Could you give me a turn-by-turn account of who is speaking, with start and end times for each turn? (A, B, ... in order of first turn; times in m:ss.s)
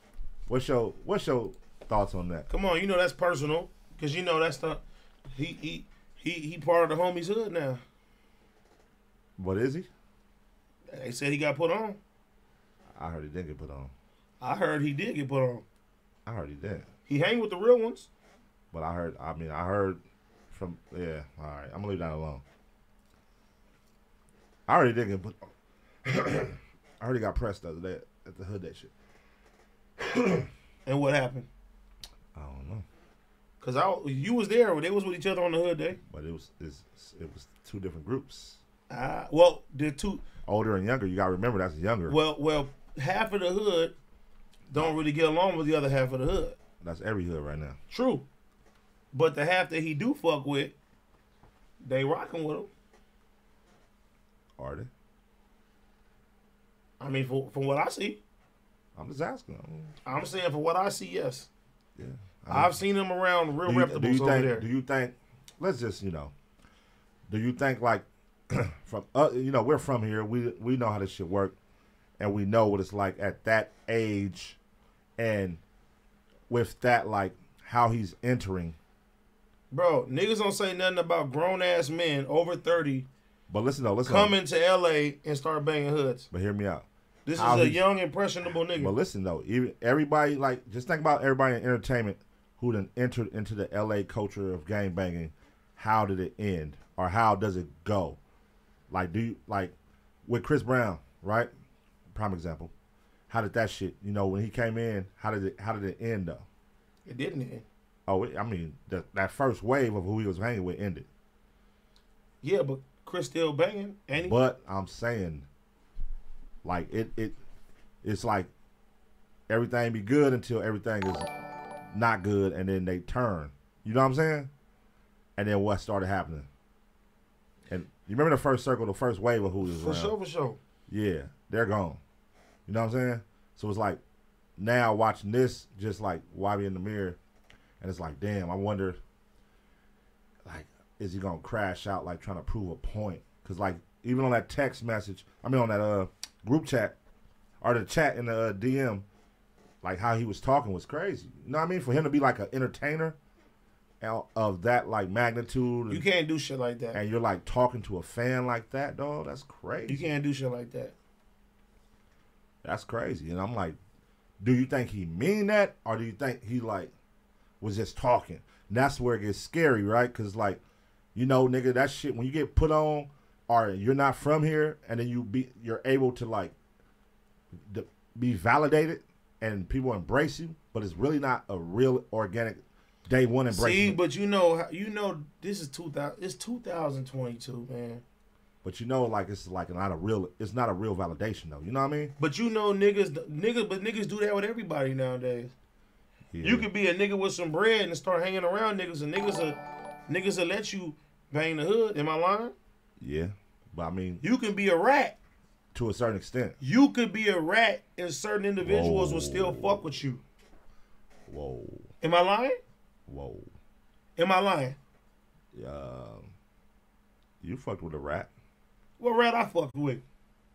0:00.5-0:02.5 A
0:02.5-0:07.8 B
0:09.4-0:09.9 A
0:10.9-0:12.0 B
0:13.0-0:13.9 A
0:14.4-0:15.6 B
0:16.2-0:16.8 A
0:17.1-0:18.1 B
0:18.7-0:20.0 A
0:20.5-0:22.4 A
0:24.7-0:25.4 A
0:26.0-0:28.9 A
0:30.8-0:31.5 B
0:32.3-0:32.8 A
0:33.6-0:36.0 B
0:36.0-0:38.6 A
0:38.9-0:40.2 B
0:40.5-0:42.2 A
0:42.1-0:43.9 B
0:44.7-0:46.6 B
0:46.8-0:47.8 A
0:47.9-0:48.2 B
0:49.1-0:50.7 B
0:51.8-0:52.7 B
0:54.6-0:54.9 A
0:57.0-0:58.2 B
0:59.0-1:00.0 A
1:00.0-1:01.5 B
1:02.0-1:02.7 A
1:02.5-1:04.6 B
1:03.6-1:06.3 A
1:07.3-1:11.6 A
1:12.2-1:14.6 A
1:15.2-1:15.6 A
1:16.5-1:18.8 A
1:19.7-1:23.1 B
1:23.5-1:24.4 A
1:24.0-1:26.3 B
1:26.3-1:27.8 A
1:27.2-1:28.9 B
1:28.7-1:38.2 A
1:38.9-1:39.7 A
1:40.3-1:41.5 A
1:42.1-1:42.7 A
1:43.3-1:46.4 A
1:47.0-1:47.6 B
1:48.1-1:51.1 A
1:52.4-1:54.3 B
1:54.1-1:55.5 A
1:56.6-1:57.3 A
1:58.0-1:58.5 A
1:59.5-2:01.3 A
2:01.9-2:04.5 A
2:05.4-2:06.5 A
2:07.7-2:10.1 A
2:09.6-2:10.6 B
2:10.9-2:12.0 A
2:12.7-2:14.0 A
2:14.6-2:17.2 A
2:17.8-2:19.0 A
2:20.4-2:27.0 A
2:27.6-2:29.0 A
2:29.8-2:33.2 A
2:34.0-2:36.1 A
2:35.9-2:37.0 B
2:36.9-2:40.1 A
2:39.9-2:40.9 B
2:42.6-2:43.8 A
2:44.4-2:46.9 A
2:47.6-2:50.6 A
2:51.1-2:56.5 A
2:57.7-3:04.0 A
3:03.5-3:08.0 B
3:08.6-3:12.1 A
3:12.2-3:15.5 B
3:16.3-3:16.7 A
3:16.4-3:22.5 B
3:23.0-3:24.2 A
3:24.2-3:25.2 B
3:25.7-3:26.6 A
3:26.6-3:30.2 B
3:28.6-3:29.8 A
3:31.3-3:31.9 A
3:32.0-3:32.6 B
3:33.1-3:33.5 A
3:34.2-3:34.8 B
3:35.5-3:36.3 A
3:37.4-3:38.3 A
3:39.0-3:40.0 B